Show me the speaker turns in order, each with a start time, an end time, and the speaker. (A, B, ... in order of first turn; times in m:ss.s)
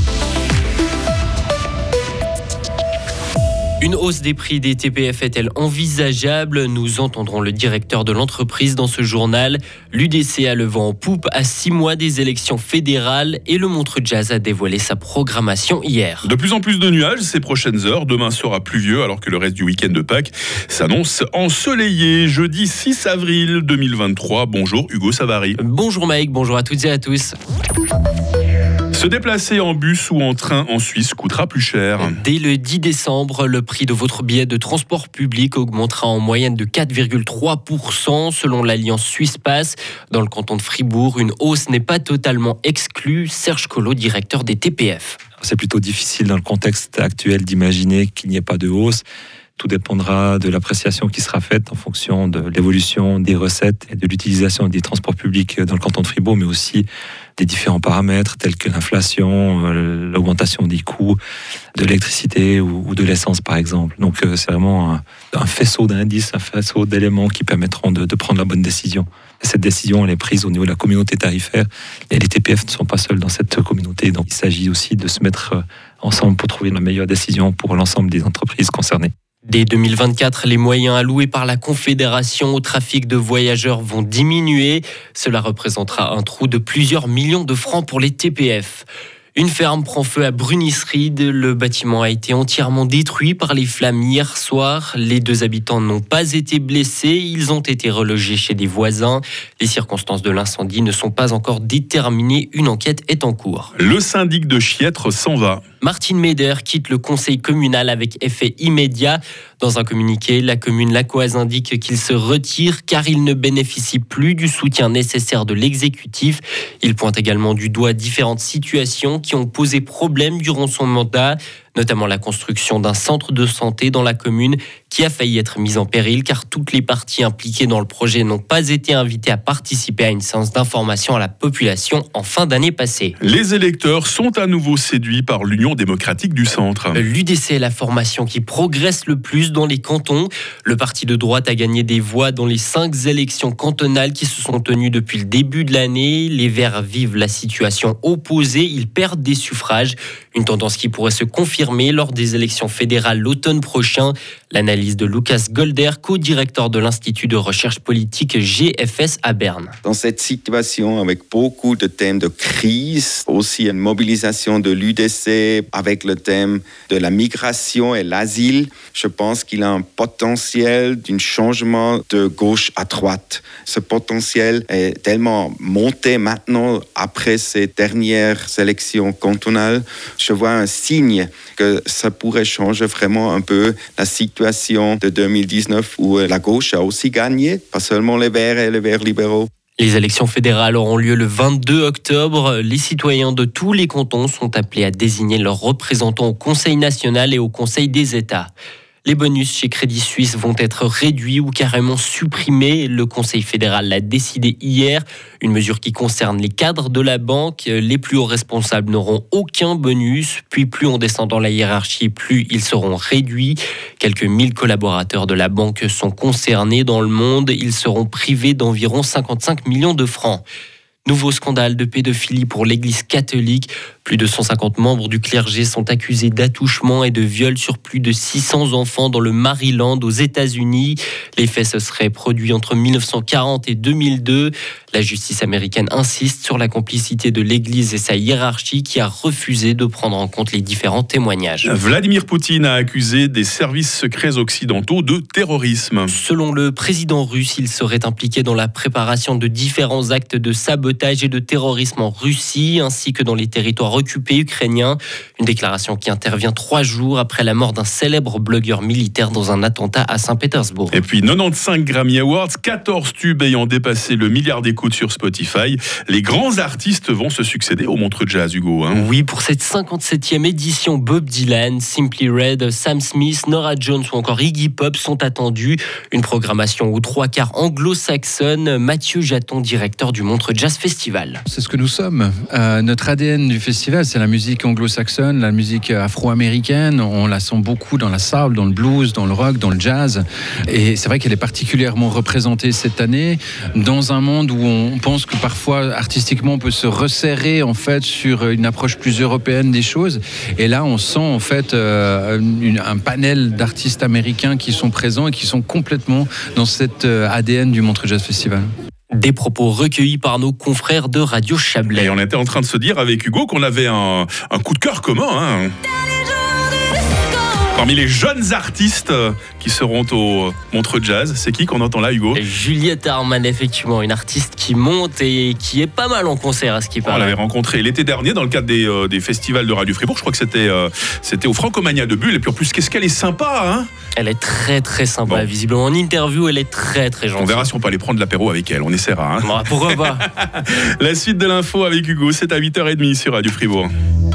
0:03.8-0:16.3 A
0:16.2-0:25.6 B
0:25.6-0:27.4 A
0:28.9-0:32.2 B
0:32.0-0:45.2 A
0:45.4-0:49.0 C
0:49.6-0:56.8 C
0:57.4-1:01.2 C
1:01.7-1:19.1 C
1:19.4-1:43.7 A
1:43.8-1:45.6 B
1:45.8-2:13.2 A
2:13.2-2:17.0 B
2:16.9-2:39.7 A
2:39.8-3:09.5 D
3:09.8-3:18.5 A
3:19.0-3:40.4 A
3:41.0-4:01.7 A
4:01.6-4:06.1 B
4:06.1-4:21.0 A
4:20.9-4:29.1 B
4:28.9-4:41.4 A
4:41.5-5:08.7 E
5:09.1-5:12.2 A
5:11.9-5:15.7 B
5:17.7-5:22.4 B
5:22.3-5:27.4 A
5:27.0-5:33.9 B
5:34.2-5:37.7 A
5:37.4-5:43.9 B
5:39.4-5:40.2 A